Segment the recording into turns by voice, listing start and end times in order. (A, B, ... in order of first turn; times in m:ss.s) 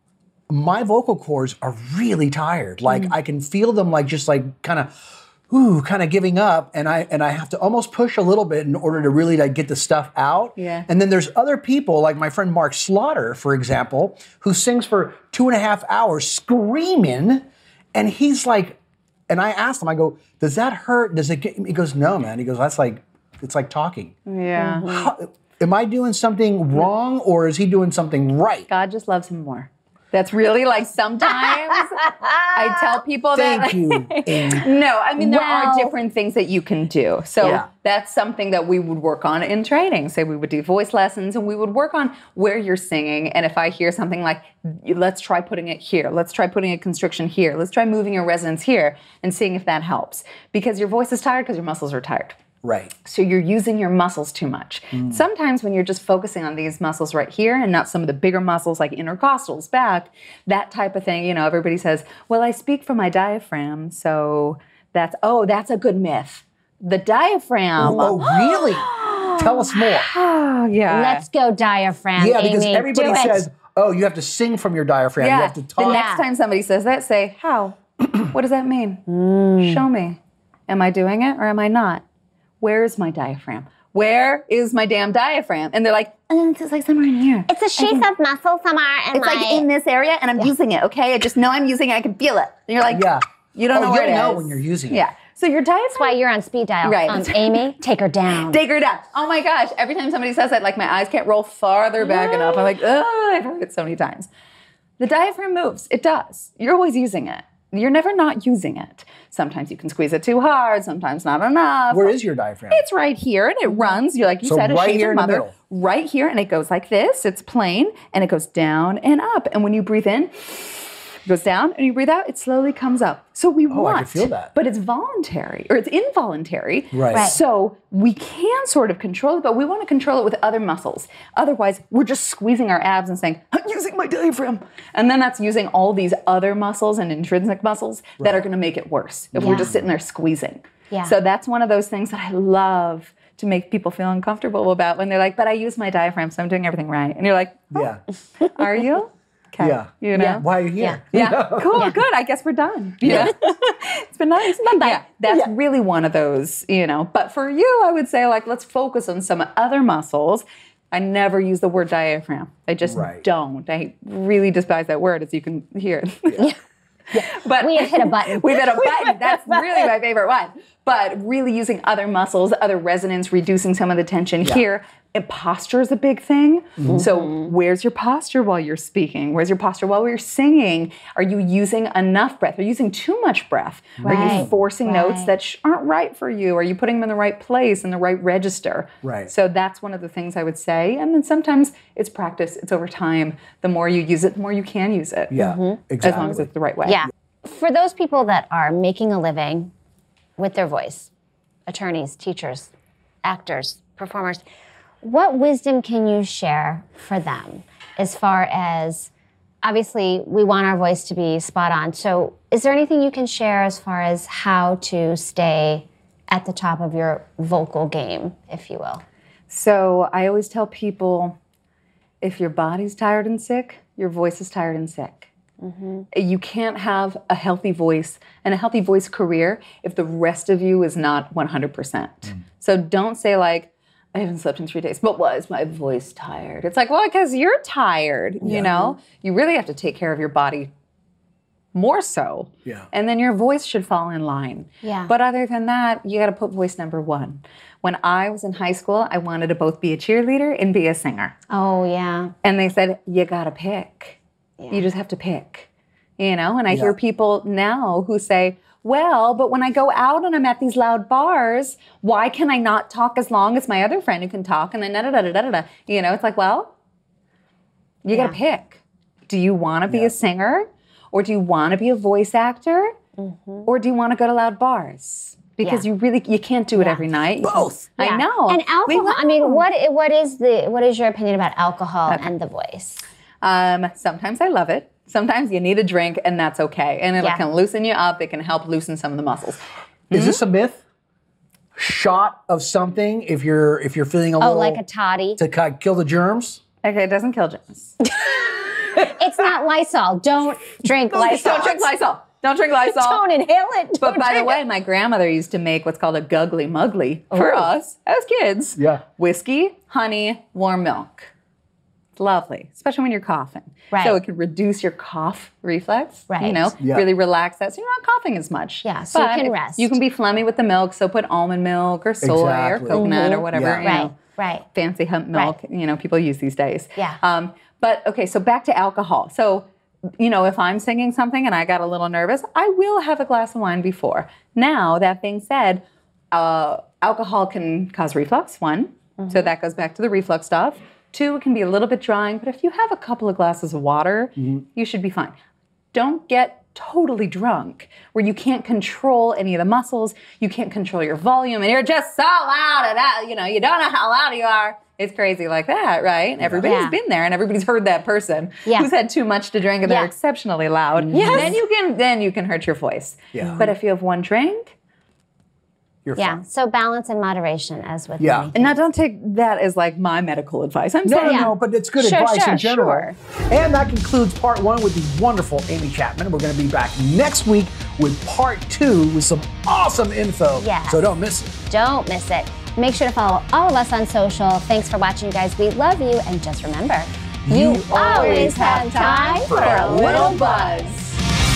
0:00.5-0:04.9 A
0:05.5-0:18.8 A
0:10.6-0:10.9 B
0:19.3-0:24.1 A
0:24.2-0:24.9 B
0:24.6-0:25.1 C
0:24.8-0:28.7 A
0:28.7-0:52.4 B
0:31.7-0:32.3 C
0:33.3-0:34.7 A
0:35.2-0:35.9 C
0:37.4-0:37.7 A
0:52.6-0:52.9 A
0:53.0-1:11.2 B
1:07.8-1:10.1 A
1:07.8-1:09.3 C
1:10.9-1:13.4 C
1:12.2-1:16.0 A
1:15.2-1:19.0 B
1:15.8-1:16.3 C
1:19.1-1:19.8 C
1:19.6-1:22.0 B
1:22.6-1:28.1 B
1:27.5-1:29.6 C
1:29.1-1:36.2 B
1:32.9-1:35.0 A
1:35.9-1:38.6 C
1:36.8-1:37.6 B
1:38.5-1:44.3 B
1:42.0-1:42.6 C
1:45.0-1:52.1 B
1:51.9-1:52.8 A
1:52.7-2:27.8 B
1:54.4-1:55.5 A
2:03.7-2:04.5 A
2:06.9-2:07.3 A
2:07.1-2:07.4 C
2:19.3-2:19.9 A
2:19.4-2:19.7 C
2:27.7-2:28.0 A
2:28.5-2:30.4 B
2:29.6-2:31.9 A
2:30.1-2:31.0 C
2:31.1-2:46.5 B
2:33.0-2:33.3 A
2:33.1-2:33.4 C
2:34.4-2:35.5 C
2:42.8-2:43.2 A
2:47.1-2:49.8 C
2:47.1-3:15.3 B
2:56.8-2:57.0 A
2:57.0-2:57.5 C
3:04.0-3:04.6 A
3:04.0-3:05.3 C
3:09.0-3:09.3 A
3:15.3-3:16.5 A
3:15.4-3:16.3 C
3:16.0-3:17.0 B
3:16.8-3:19.7 C
3:20.4-3:21.1 C
3:21.7-3:22.7 C
3:23.2-3:24.4 C
3:25.0-3:29.1 C
3:29.6-3:39.0 C
3:39.5-3:41.4 B
3:42.2-3:45.3 B
3:45.6-3:46.1 C
3:46.1-4:00.7 B
3:58.4-3:58.7 A
3:58.4-3:58.9 C
4:01.7-4:11.3 B
4:04.8-4:05.1 C
4:11.5-4:12.3 C
4:12.4-4:14.2 B
4:14.6-4:14.8 C
4:14.7-4:26.7 B
4:28.0-4:33.0 B
4:33.2-4:33.7 C
4:33.6-4:39.6 B
4:36.8-4:43.0 C
4:37.4-4:37.8 A
4:43.4-4:50.4 B
4:50.1-4:50.8 A
4:51.8-4:54.8 A
4:54.4-4:55.4 C
4:55.4-4:56.6 A
4:56.8-4:58.0 B
4:58.0-5:01.9 C
5:01.1-5:03.2 B
5:02.8-5:04.6 C
5:04.0-5:11.3 B
5:07.3-5:07.7 C
5:08.8-5:09.0 A
5:12.2-5:24.2 B
5:13.9-5:14.2 C
5:16.3-5:16.7 C
5:16.8-5:17.1 A
5:18.8-5:20.0 C
5:22.2-5:23.9 A
5:22.9-5:24.7 C
5:24.7-5:29.7 B
5:30.2-5:45.3 B
5:39.2-5:39.5 C
5:45.9-6:04.7 B
5:56.4-5:56.7 A
5:56.6-5:57.0 C
5:59.8-6:00.1 C
6:01.1-6:01.6 C
6:01.1-6:01.6 A
6:03.3-6:03.7 A
6:03.4-6:03.7 C
6:06.0-6:06.4 A
6:06.2-6:08.8 C
6:08.2-6:08.5 A
6:08.5-6:11.5 B
6:11.0-6:21.5 A
6:11.2-6:13.1 C
6:20.6-6:21.1 C
6:21.7-6:30.7 C
6:27.4-6:30.4 A
6:27.9-6:31.2 B